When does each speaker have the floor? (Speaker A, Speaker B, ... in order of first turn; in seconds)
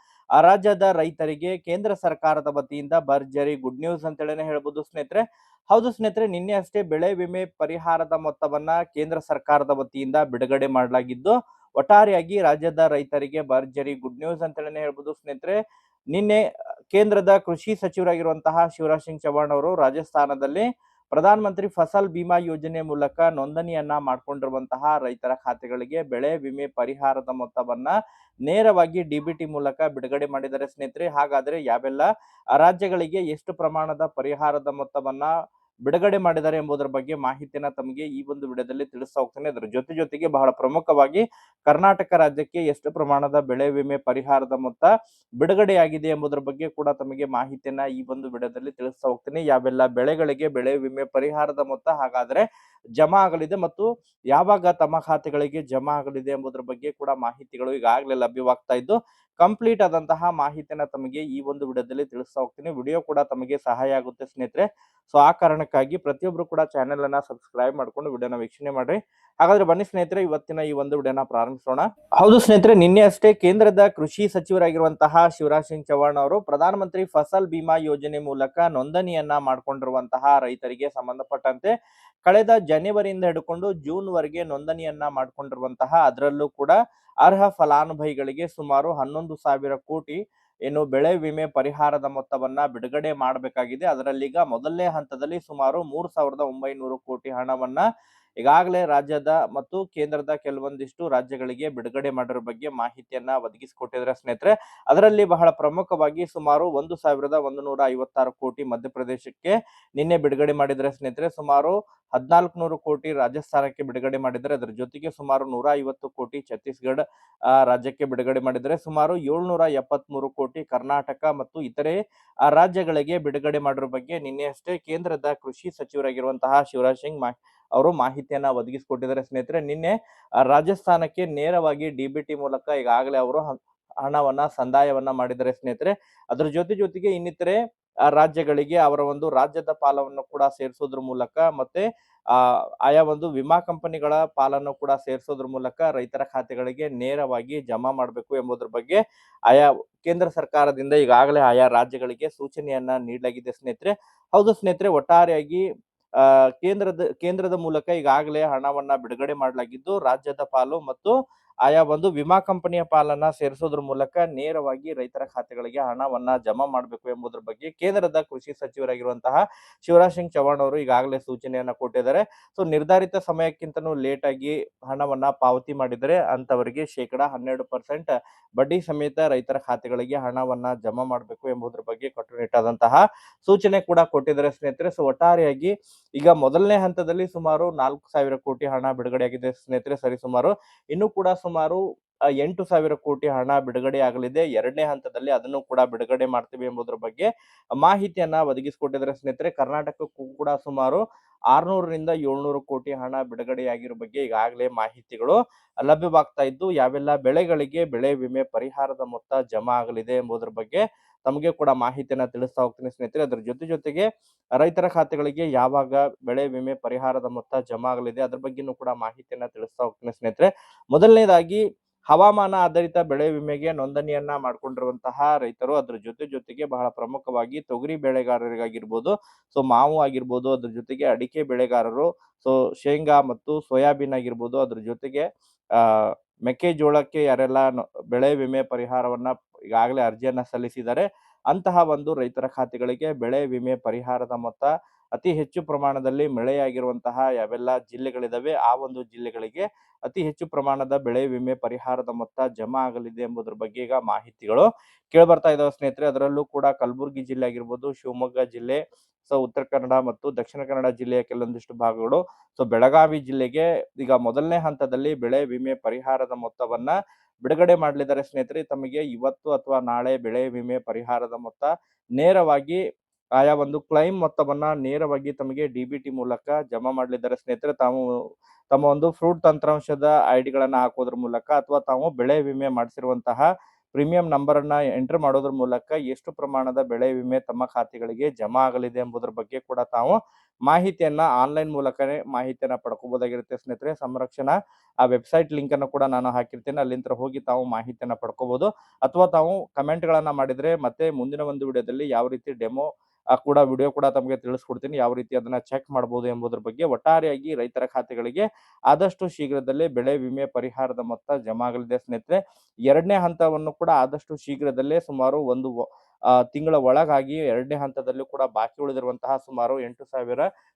Speaker A: 0.4-15.6, 16.1-16.4, 16.9-27.9, 28.5-35.3, 35.9-52.4, 53.0-81.7, 82.2-97.8, 98.4-117.0, 117.7-121.9, 122.5-129.9, 130.5-133.4, 134.0-137.6, 138.2-155.6, 156.2-161.1, 161.7-191.8, 192.4-201.0, 201.5-214.1, 214.6-235.2, 235.8-272.8, 273.4-278.0, 278.7-283.4, 283.9-290.2, 290.7-302.9, 303.4-312.4, 312.9-315.7, 316.5-320.5